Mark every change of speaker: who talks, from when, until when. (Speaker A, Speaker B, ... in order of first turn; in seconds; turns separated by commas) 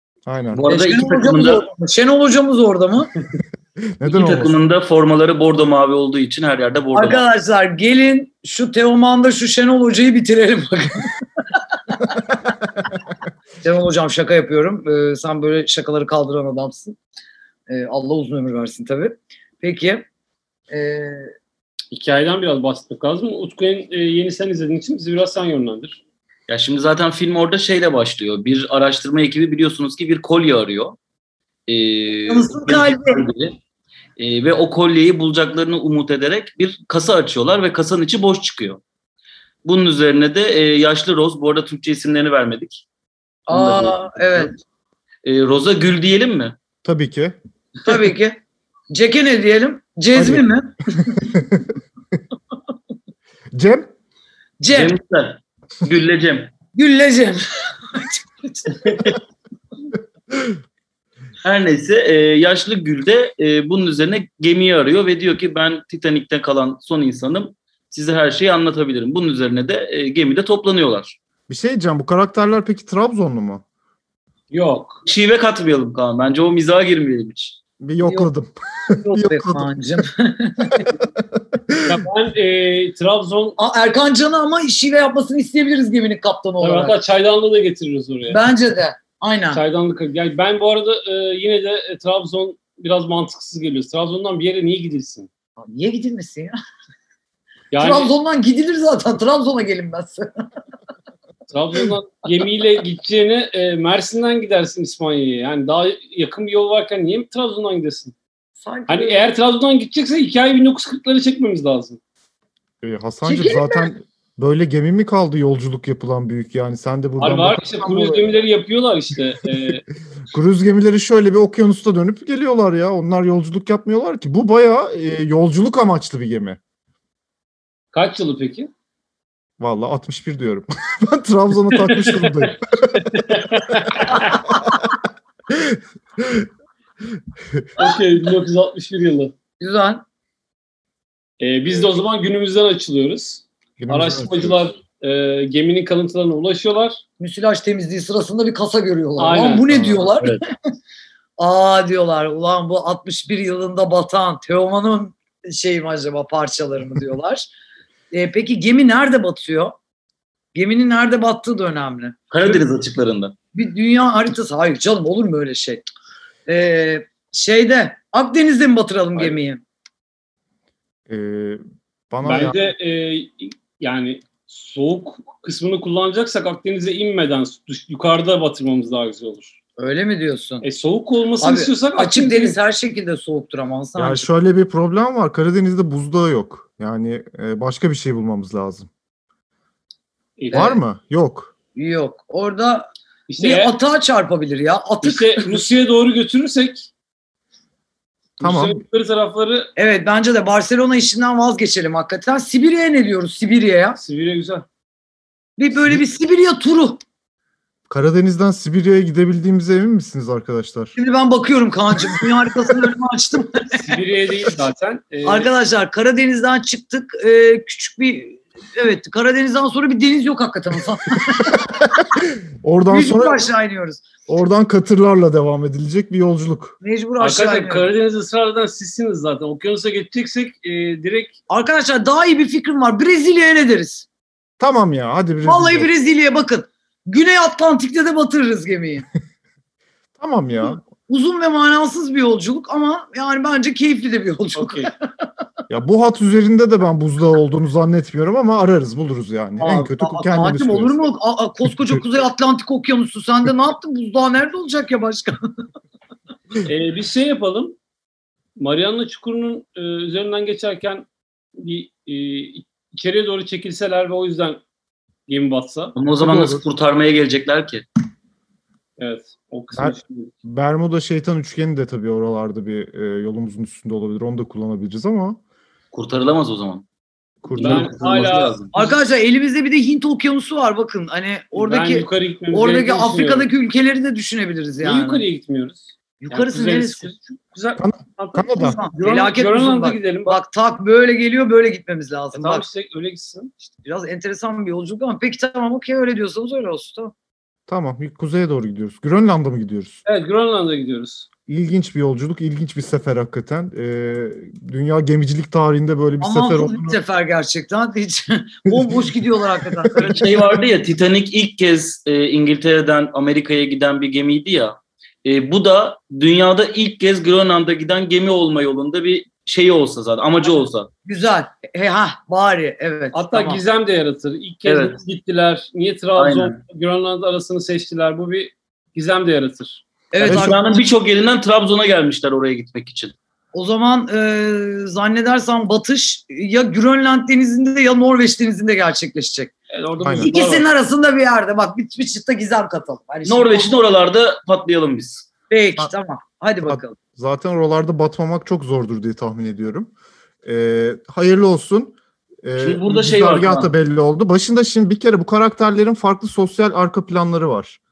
Speaker A: 0.2-0.6, Speaker B: 0.5-1.6, Speaker C: 0.7-3.1, Speaker A: 3.9-4.5, Speaker B: 4.0-7.2, Speaker C: 6.9-11.1, Speaker C: 11.9-12.2, Speaker C: 13.6-17.0, Speaker C: 17.7-20.1, Speaker C: 20.7-21.3, Speaker D: 21.9-26.0, Speaker B: 26.5-31.0, Speaker B: 31.7-33.6, Speaker C: 32.3-33.2, Speaker B: 34.2-38.8, Speaker B: 39.6-42.8, Speaker C: 43.5-44.5, Speaker B: 43.5-44.5, Speaker B: 45.2-46.5, Speaker A: 46.8-47.4, Speaker C: 47.8-48.4, Speaker C: 48.9-51.2, Speaker A: 50.1-50.5, Speaker A: 51.2-51.7, Speaker A: 53.5-53.9, Speaker C: 54.6-54.9, Speaker B: 54.7-56.5, Speaker C: 56.7-57.4, Speaker C: 57.9-58.9, Speaker D: 58.8-59.2, Speaker B: 61.4-71.2, Speaker A: 71.5-73.6, Speaker D: 74.5-75.0, Speaker B: 75.0-77.5, Speaker A: 77.8-79.7, Speaker C: 78.0-78.3, Speaker C: 79.0-80.9, Speaker A: 81.2-82.0, Speaker D: 81.8-83.6, Speaker C: 83.6-87.0, Speaker D: 86.6-88.4, Speaker C: 88.3-89.6, Speaker D: 89.5-95.3, Speaker C: 95.6-96.6, Speaker D: 97.7-98.1, Speaker C: 97.8-100.3, Speaker D: 101.5-108.1, Speaker C: 108.6-109.2, Speaker D: 108.9-112.0, Speaker A: 112.8-118.3, Speaker C: 113.2-113.9, Speaker D: 117.2-119.8, Speaker A: 120.3-126.6, Speaker D: 127.9-128.7, Speaker A: 129.6-133.3, Speaker D: 131.8-134.4, Speaker A: 134.0-134.8, Speaker A: 135.5-136.5, Speaker D: 137.8-139.3, Speaker C: 139.6-140.0, Speaker D: 141.4-147.0, Speaker A: 143.8-144.7, Speaker C: 147.2-150.4, Speaker D: 149.2-149.9, Speaker C: 151.4-157.5, Speaker C: 158.1-159.7, Speaker C: 160.5-162.6, Speaker B: 162.3-163.3, Speaker C: 163.5-165.8, Speaker C: 166.5-169.6, Speaker A: 171.1-172.6, Speaker D: 172.2-179.5, Speaker C: 179.8-180.6, Speaker D: 180.6-182.6, Speaker C: 181.4-184.2, Speaker A: 183.9-188.9, Speaker D: 190.4-190.8, Speaker A: 190.5-191.5, Speaker C: 190.5-190.8, Speaker C: 191.7-195.6, Speaker D: 193.3-193.7, Speaker D: 195.0-196.9, Speaker D: 198.4-199.7, Speaker A: 198.4-198.8, Speaker C: 199.8-204.0, Speaker D: 204.0-204.6, Speaker C: 205.6-207.0, Speaker A: 207.9-210.9, Speaker C: 210.9-213.8, Speaker D: 213.8-215.5, Speaker C: 215.2-221.7, Speaker A: 222.2-223.4, Speaker C: 222.9-224.0, Speaker A: 224.3-226.8, Speaker C: 226.8-227.8, Speaker D: 227.2-231.4, Speaker C: 231.5-234.1, Speaker A: 234.6-235.9, Speaker C: 235.4-239.1, Speaker A: 240.2-240.8, Speaker C: 240.9-244.9, Speaker D: 244.6-244.9, Speaker A: 245.7-251.0, Speaker C: 249.6-255.4, Speaker D: 256.6-257.8, Speaker D: 258.6-264.6, Speaker D: 265.3-265.9, Speaker B: 265.9-267.8, Speaker A: 266.2-266.6, Speaker D: 269.0-270.3, Speaker A: 269.7-275.4, Speaker B: 275.9-276.8, Speaker A: 277.4-278.2, Speaker B: 277.5-278.7, Speaker D: 277.6-278.9, Speaker C: 278.7-285.2, Speaker D: 281.5-283.5, Speaker D: 284.8-290.4, Speaker C: 286.2-287.1, Speaker A: 287.8-288.8, Speaker C: 288.5-292.7, Speaker D: 292.3-293.5, Speaker C: 293.8-297.1, Speaker A: 297.7-300.0, Speaker D: 300.1-301.3, Speaker A: 301.5-307.0, Speaker C: 306.2-310.4, Speaker A: 308.7-309.1, Speaker B: 310.0-320.9, Speaker C: 321.1-323.6, Speaker D: 323.1-329.8, Speaker B: 324.6-325.0, Speaker B: 326.1-326.6, Speaker C: 330.1-330.8, Speaker B: 330.2-333.1, Speaker A: 330.2-330.5, Speaker C: 333.5-339.5, Speaker D: 339.7-340.7, Speaker A: 340.0-340.3, Speaker C: 340.2-343.8, Speaker B: 343.2-345.3, Speaker C: 345.5-346.9, Speaker A: 346.6-349.9, Speaker A: 350.4-357.8, Speaker B: 352.6-353.7